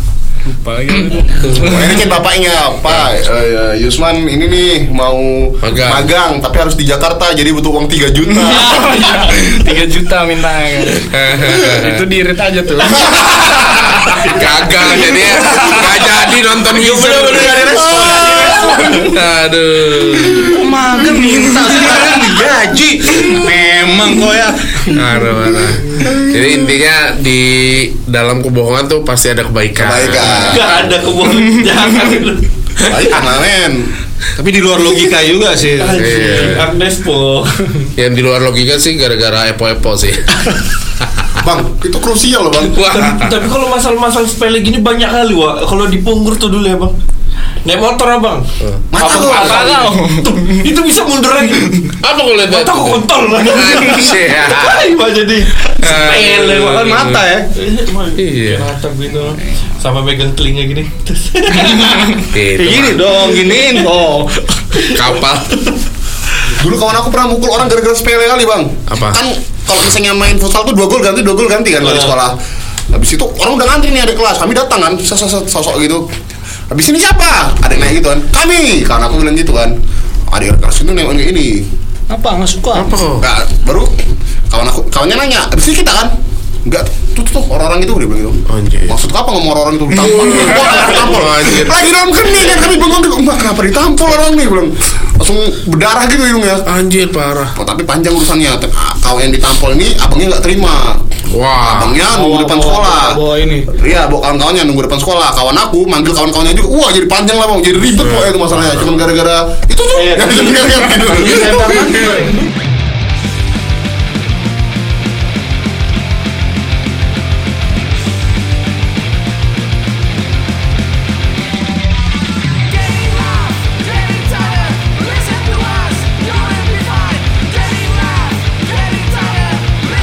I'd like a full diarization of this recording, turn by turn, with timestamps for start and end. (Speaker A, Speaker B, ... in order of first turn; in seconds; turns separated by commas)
Speaker A: 0.5-2.1, Speaker B: 1.5-9.2, Speaker C: 5.6-6.1, Speaker A: 8.4-15.9, Speaker C: 11.0-12.1, Speaker C: 13.1-17.8, Speaker B: 13.2-13.5, Speaker D: 16.7-19.0, Speaker E: 17.8-18.4, Speaker A: 17.9-19.1, Speaker B: 18.0-19.0, Speaker C: 18.9-20.6, Speaker E: 20.5-25.0, Speaker C: 24.9-30.8, Speaker B: 29.8-30.8, Speaker D: 30.3-33.0, Speaker B: 32.8-33.9, Speaker E: 34.4-36.2, Speaker D: 35.8-37.6, Speaker C: 35.9-36.7, Speaker C: 38.0-41.3, Speaker B: 41.4-43.0, Speaker C: 42.7-43.4, Speaker D: 42.8-46.9, Speaker D: 47.6-52.0, Speaker C: 48.6-49.6, Speaker B: 48.9-49.8, Speaker A: 49.2-50.7, Speaker C: 52.0-54.9, Speaker D: 52.5-62.2, Speaker C: 55.7-57.3, Speaker E: 56.5-57.5, Speaker C: 58.2-58.7, Speaker C: 62.3-63.2, Speaker E: 62.5-64.8, Speaker C: 64.9-65.6, Speaker B: 66.5-72.4, Speaker C: 68.9-69.2, Speaker D: 71.8-72.2, Speaker B: 72.9-76.0, Speaker B: 76.7-79.8, Speaker B: 80.3-81.7, Speaker E: 82.1-83.0, Speaker C: 82.8-83.3, Speaker B: 83.2-83.9, Speaker B: 84.5-86.1, Speaker B: 86.7-96.7, Speaker C: 88.5-89.0, Speaker C: 90.0-91.8, Speaker C: 96.7-97.5, Speaker B: 97.5-101.0, Speaker C: 101.3-102.0, Speaker B: 101.6-103.2, Speaker E: 102.0-103.7, Speaker B: 103.7-112.3, Speaker C: 107.9-109.0, Speaker D: 109.9-111.2, Speaker E: 110.9-112.5, Speaker E: 124.3-124.9, Speaker E: 125.5-126.5, Speaker E: 129.2-129.7